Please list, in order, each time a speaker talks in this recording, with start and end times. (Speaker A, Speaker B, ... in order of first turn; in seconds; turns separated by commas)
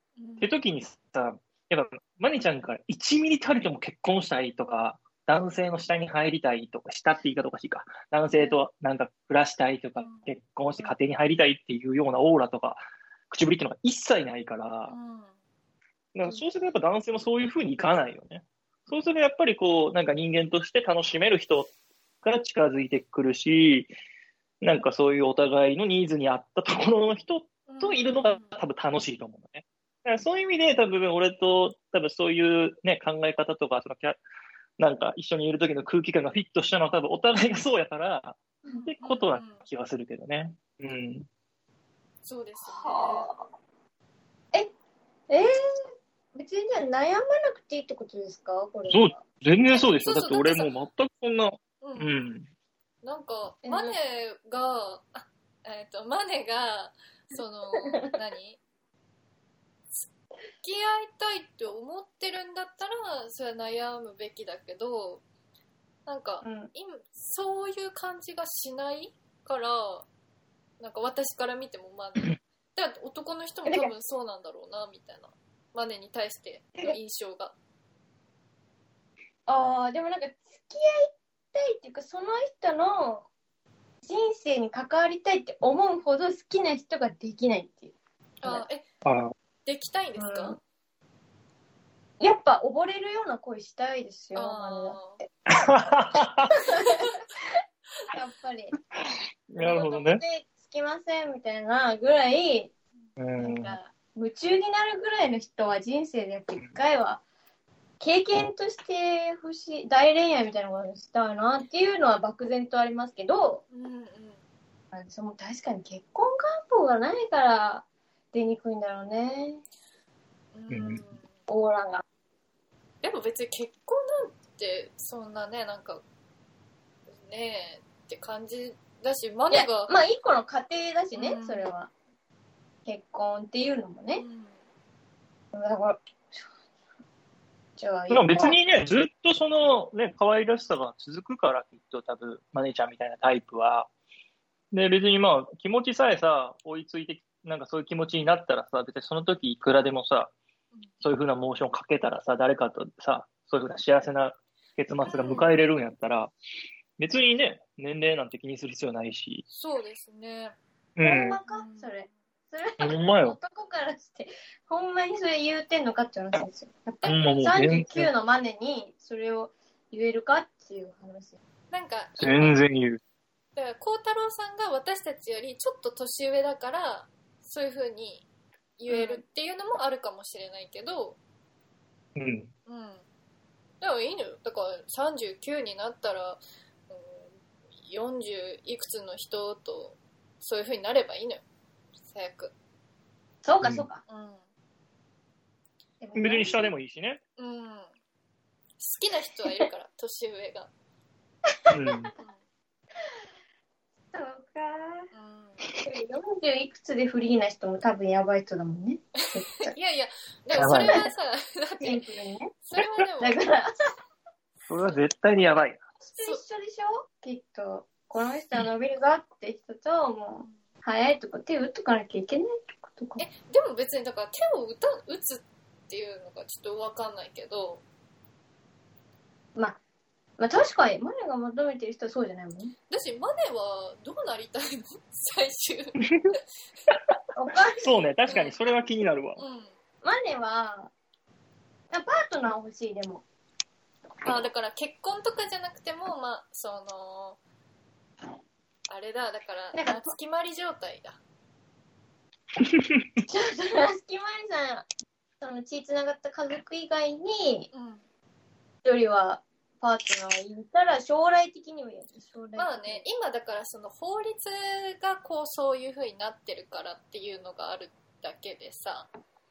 Speaker A: 0.2-0.5, Speaker B: 0.4-14.9, Speaker A: 10.0-10.3, Speaker A: 14.9-15.3, Speaker B: 16.1-21.7, Speaker B: 22.2-23.9, Speaker B: 24.6-34.2, Speaker A: 27.7-28.6, Speaker B: 34.8-41.3, Speaker A: 38.8-39.6, Speaker A: 42.2-43.3, Speaker C: 42.6-43.4, Speaker C: 46.3-49.2, Speaker B: 48.9-52.5, Speaker A: 49.7-50.7, Speaker A: 51.8-52.1, Speaker A: 53.0-58.6, Speaker C: 53.6-54.0, Speaker A: 60.6-65.2, Speaker A: 66.0-70.1, Speaker C: 66.4-66.7, Speaker A: 70.8-77.5, Speaker C: 73.7-73.9, Speaker C: 79.5-83.3, Speaker C: 84.0-88.6, Speaker A: 88.4-88.8, Speaker B: 89.0-89.3, Speaker A: 89.7-90.6, Speaker C: 90.2-90.6, Speaker C: 92.2-95.2, Speaker A: 94.3-95.2, Speaker B: 95.5-96.5, Speaker C: 96.7-97.0, Speaker A: 96.8-97.2, Speaker C: 98.1-98.7, Speaker B: 99.5-100.2, Speaker C: 99.6-102.7, Speaker B: 103.2-103.8, Speaker C: 103.4-107.2, Speaker C: 108.0-113.6, Speaker A: 113.7-114.4, Speaker C: 114.9-119.6, Speaker A: 120.5-121.3, Speaker B: 120.7-121.0, Speaker C: 121.5-122.0, Speaker A: 123.0-126.0, Speaker A: 127.2-129.9, Speaker C: 129.5-131.9, Speaker A: 131.2-131.7, Speaker C: 132.8-134.2, Speaker A: 134.1-134.6, Speaker C: 135.5-136.4, Speaker C: 137.8-138.6, Speaker B: 138.1-143.9, Speaker B: 144.7-150.3, Speaker B: 151.0-156.3, Speaker A: 155.1-155.4, Speaker B: 157.0-159.4, Speaker A: 159.5-160.6, Speaker B: 161.0-161.4, Speaker C: 161.0-171.4, Speaker A: 161.4-162.1, Speaker B: 162.8-163.4, Speaker B: 167.0-168.1, Speaker A: 171.7-172.6, Speaker B: 172.2-173.0, Speaker A: 173.6-178.2, Speaker A: 178.8-181.2, Speaker C: 178.9-179.2, Speaker B: 182.2-182.5, Speaker A: 182.7-183.0, Speaker A: 183.8-187.3, Speaker A: 187.9-191.4, Speaker A: 192.1-192.5, Speaker C: 193.4-194.0, Speaker A: 194.1-194.4, Speaker C: 196.0-196.7, Speaker B: 196.2-197.2, Speaker A: 197.4-197.9, Speaker A: 198.8-200.7, Speaker C: 201.6-202.1, Speaker B: 201.7-202.1, Speaker C: 204.1-205.1, Speaker A: 205.1-205.6, Speaker C: 205.8-209.7, Speaker A: 209.2-212.0, Speaker C: 210.5-211.1, Speaker B: 210.6-211.0, Speaker C: 211.8-212.5, Speaker A: 212.6-213.4, Speaker C: 213.2-213.9, Speaker B: 214.7-215.8, Speaker C: 216.0-223.2, Speaker A: 223.2-227.8, Speaker C: 230.4-232.7, Speaker A: 232.9-236.0, Speaker B: 236.1-236.3, Speaker C: 237.4-237.9, Speaker B: 237.8-239.4, Speaker A: 238.3-238.6, Speaker A: 239.4-239.7, Speaker C: 240.0-240.9, Speaker C: 241.9-243.2, Speaker A: 244.2-247.4, Speaker A: 248.9-251.2, Speaker C: 249.7-250.1, Speaker B: 252.6-253.0, Speaker C: 253.2-254.9, Speaker C: 255.4-257.7, Speaker A: 257.7-258.0, Speaker C: 258.8-263.1, Speaker A: 262.6-269.1